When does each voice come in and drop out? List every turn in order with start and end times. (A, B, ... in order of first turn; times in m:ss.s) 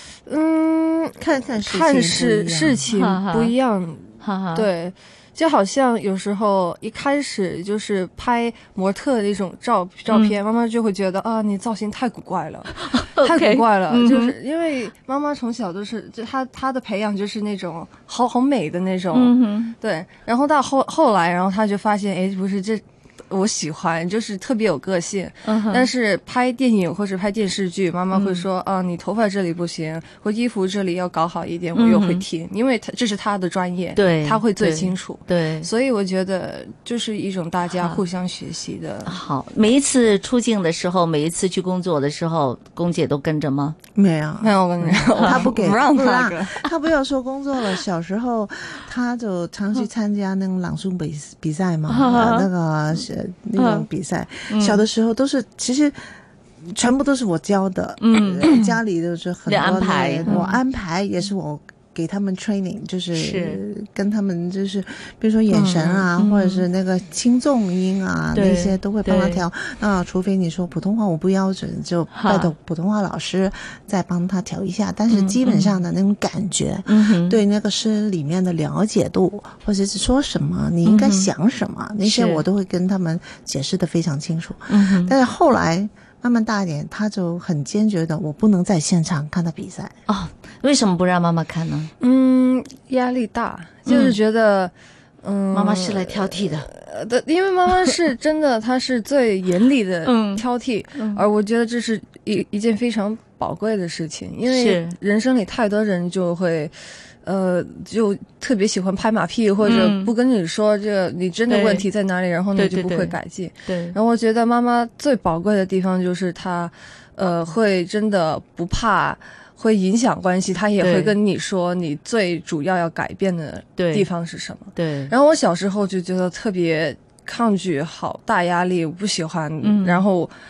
0:00.2-0:39.1 A
0:01.2-0:02.8 B
0:02.9-0:03.5 C
0:04.2-0:04.7 C
0:10.1-0:10.4 C
0:12.8-0:14.3 C
0:19.1-0:19.8 C
0:25.4-0:25.9 C
0:28.1-0:28.5 C
0:31.7-0:32.2 C
0:34.0-0:35.7 C
0:37.7-0:38.0 C
0:39.1-0:43.8 C
0:44.0-0:56.1 B
0:44.4-0:46.7 A
0:51.9-0:52.5 C
0:53.6-0:53.9 C
0:54.5-0:54.8 C
0:56.6-1:30.0 B
0:58.0-0:58.5 C
0:58.4-0:58.8 A
0:59.4-1:00.5 C
1:00.3-1:00.6 A
1:03.1-1:03.6 C
1:05.5-1:06.1 A
1:06.2-1:06.6 C
1:08.3-1:09.4 C
1:12.1-1:12.5 C
1:15.1-1:15.4 A
1:15.4-1:15.7 C
1:16.9-1:17.4 C
1:20.8-1:21.3 C
1:22.0-1:22.4 C
1:24.7-1:25.1 C
1:30.1-1:31.9 C
1:32.0-2:10.3 A
1:33.9-1:34.2 C
1:35.5-1:36.7 C
1:40.0-1:41.2 C
1:44.5-1:45.0 C
1:49.6-1:50.1 C
1:51.5-1:51.8 C
1:52.5-1:54.0 C
2:00.8-2:01.2 C
2:03.8-2:04.1 C
2:04.8-2:05.1 C
2:09.6-2:10.0 C